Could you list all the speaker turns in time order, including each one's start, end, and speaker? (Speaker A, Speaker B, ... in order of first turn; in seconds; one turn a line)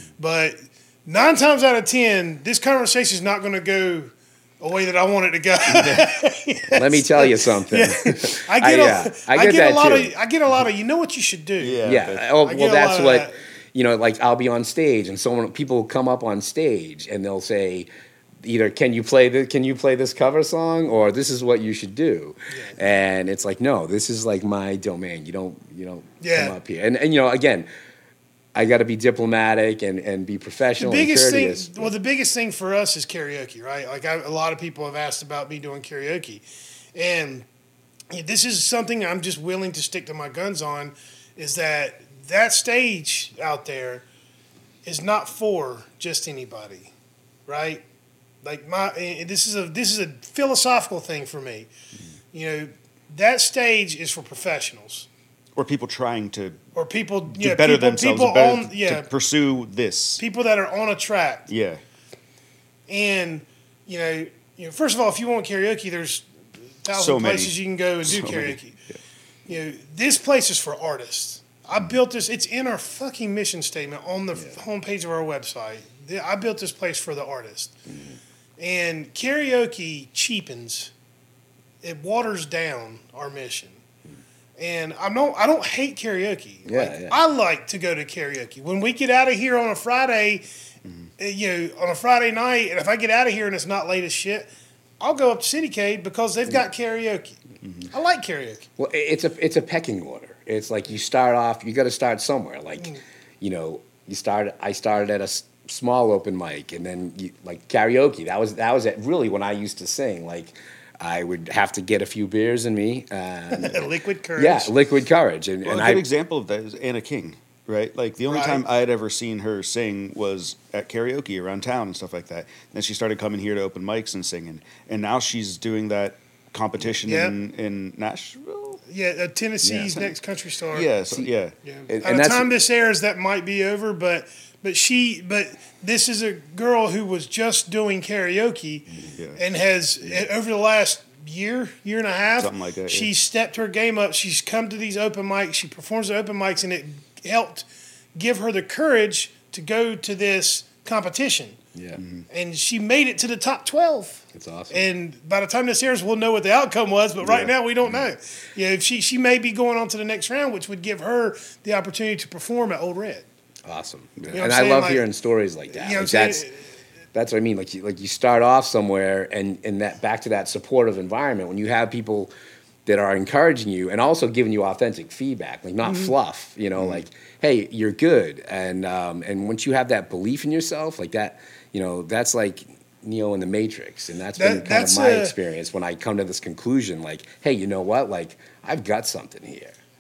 Speaker A: 0.2-11.8
Speaker B: 5.7-6.1
Speaker C: 6.7-10.1
Speaker B: 11.6-12.2
Speaker C: 11.8-17.9
Speaker A: 12.4-13.4
Speaker C: 18.4-27.7
Speaker A: 22.5-22.8
Speaker A: 26.2-26.6
Speaker C: 28.5-31.9
Speaker A: 30.8-36.4
Speaker A: 37.0-37.5
Speaker A: 38.1-44.0
Speaker A: 44.9-46.9
Speaker A: 47.5-47.8
Speaker A: 48.4-51.7
Speaker A: 52.3-55.1
Speaker B: 55.6-56.6
Speaker A: 56.8-59.1
Speaker B: 57.3-60.2
Speaker A: 60.2-61.5
Speaker B: 61.5-61.8
Speaker A: 62.9-66.3
Speaker A: 66.8-68.8
Speaker B: 66.9-69.0
Speaker A: 69.5-77.7
Speaker C: 77.9-78.2
Speaker A: 78.6-80.9
Speaker A: 81.8-83.8
Speaker A: 84.6-90.5
Speaker C: 86.7-87.2
Speaker B: 90.8-91.1
Speaker A: 91.2-97.4
Speaker B: 97.6-97.9
Speaker A: 97.9-98.7
Speaker C: 98.8-113.8
Speaker A: 113.5-114.7
Speaker C: 114.4-116.0
Speaker B: 115.7-128.8
Speaker A: 118.3-118.6
Speaker A: 127.0-127.3
Speaker A: 128.9-130.9
Speaker C: 129.6-129.9
Speaker B: 130.7-131.6
Speaker A: 131.7-151.6
Speaker C: 131.9-132.5
Speaker B: 142.4-143.1
Speaker C: 151.8-152.0
Speaker B: 152.0-152.3
Speaker A: 152.3-163.2
Speaker C: 154.3-154.9
Speaker B: 157.2-157.5
Speaker C: 163.7-166.5
Speaker A: 164.3-165.0
Speaker A: 165.7-166.6
Speaker C: 167.1-172.3
Speaker C: 172.9-189.8
Speaker A: 175.8-176.1
Speaker A: 184.4-185.3